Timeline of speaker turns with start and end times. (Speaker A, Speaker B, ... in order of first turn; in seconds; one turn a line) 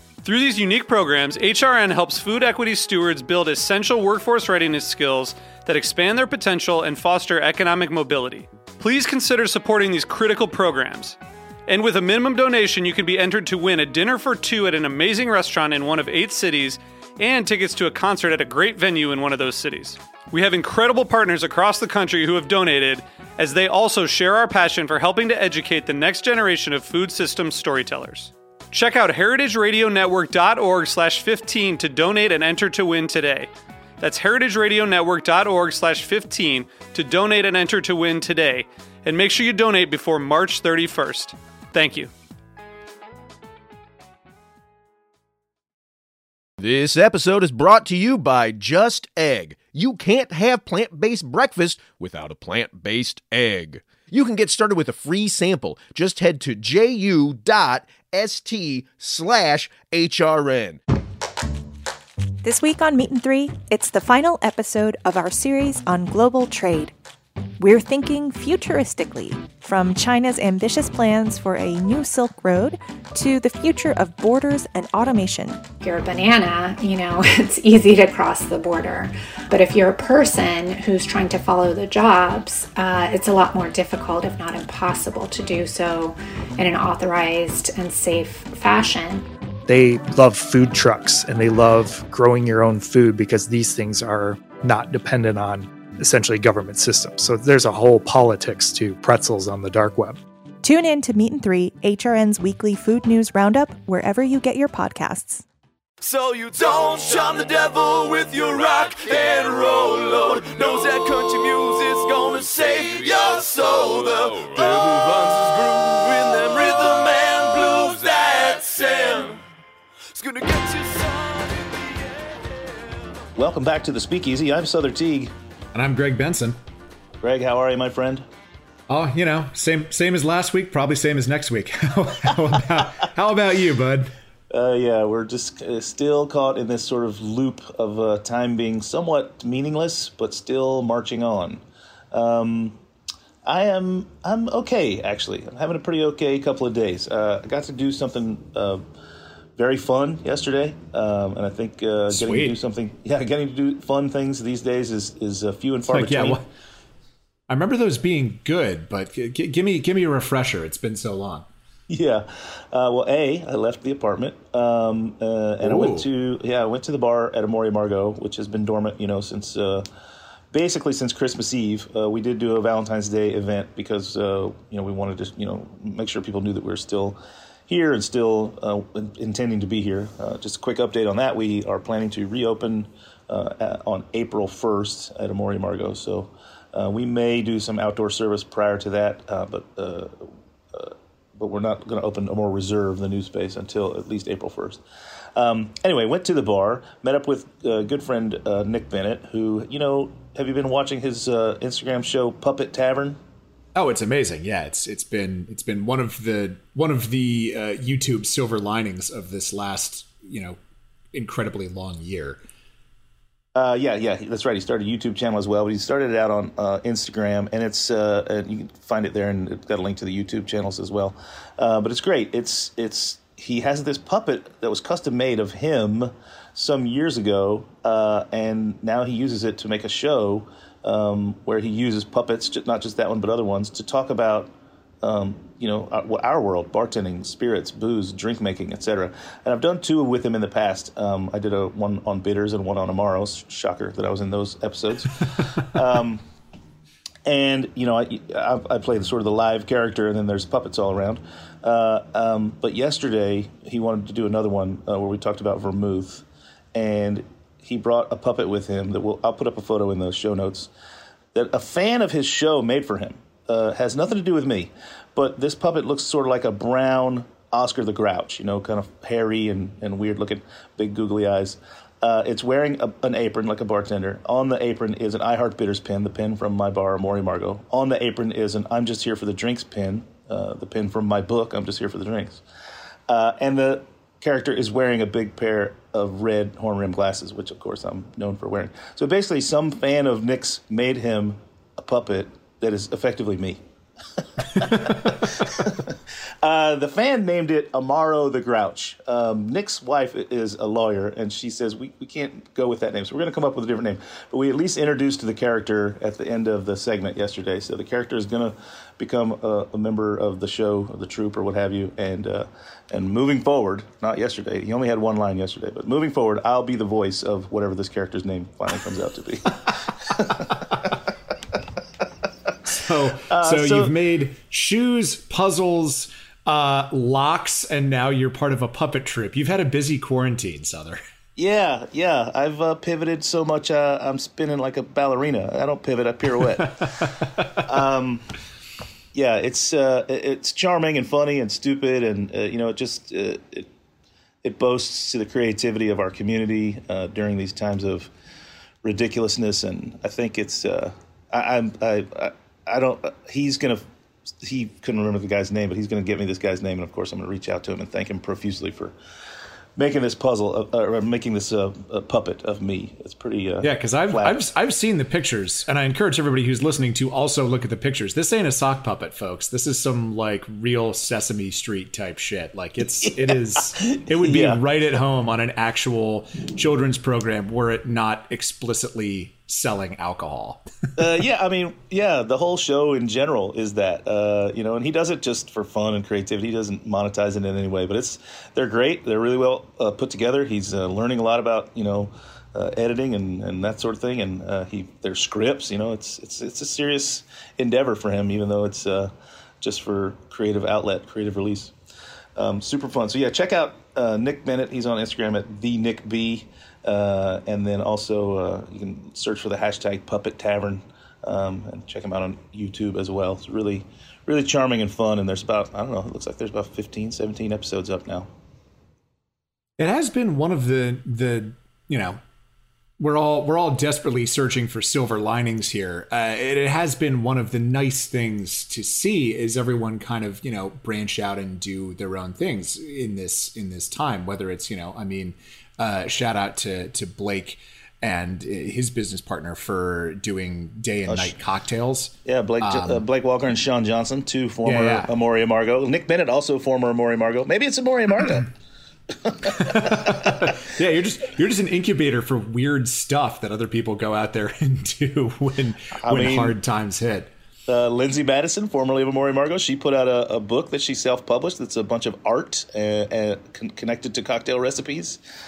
Speaker A: 0.2-42.1
Speaker B: 46.6-60.8
Speaker C: 62.4-66.9
Speaker C: 67.6-75.6
Speaker D: 75.8-89.3
Speaker E: 89.7-100.2
Speaker C: 100.6-105.4
Speaker F: 106.0-119.4
Speaker F: 120.1-122.7
Speaker G: 123.3-125.3
Speaker H: 125.7-126.6
Speaker G: 127.2-128.2
Speaker H: 128.9-134.1
Speaker G: 134.5-142.8
Speaker G: 143.4-148.8
Speaker G: 149.6-156.4
Speaker H: 152.1-152.6
Speaker H: 155.9-156.4
Speaker H: 157.5-161.5
Speaker G: 161.9-169.8
Speaker H: 165.6-166.1
Speaker G: 170.5-194.8
Speaker G: 195.3-203.2
Speaker H: 203.7-210.6
Speaker H: 211.1-212.4
Speaker G: 213.5-234.5
Speaker G: 235.0-246.2
Speaker G: 247.2-260.7
Speaker G: 261.3-282.4
Speaker G: 283.1-293.6
Speaker G: 294.4-320.9
Speaker H: 294.7-295.1
Speaker G: 322.6-323.9
Speaker H: 322.7-331.0
Speaker G: 331.4-337.0
Speaker H: 337.0-337.5
Speaker G: 337.6-338.3
Speaker G: 339.1-343.7
Speaker G: 344.4-348.1
Speaker G: 348.8-353.8
Speaker G: 354.4-358.9
Speaker G: 359.8-364.4
Speaker H: 363.6-380.6
Speaker G: 373.0-374.6
Speaker G: 381.0-401.7
Speaker G: 402.4-418.3
Speaker H: 419.8-422.2
Speaker H: 423.0-443.0
Speaker G: 441.1-441.4
Speaker G: 442.2-448.5
Speaker H: 444.6-445.1
Speaker G: 449.2-450.4
Speaker H: 449.5-457.3
Speaker G: 456.0-456.6
Speaker G: 457.7-465.2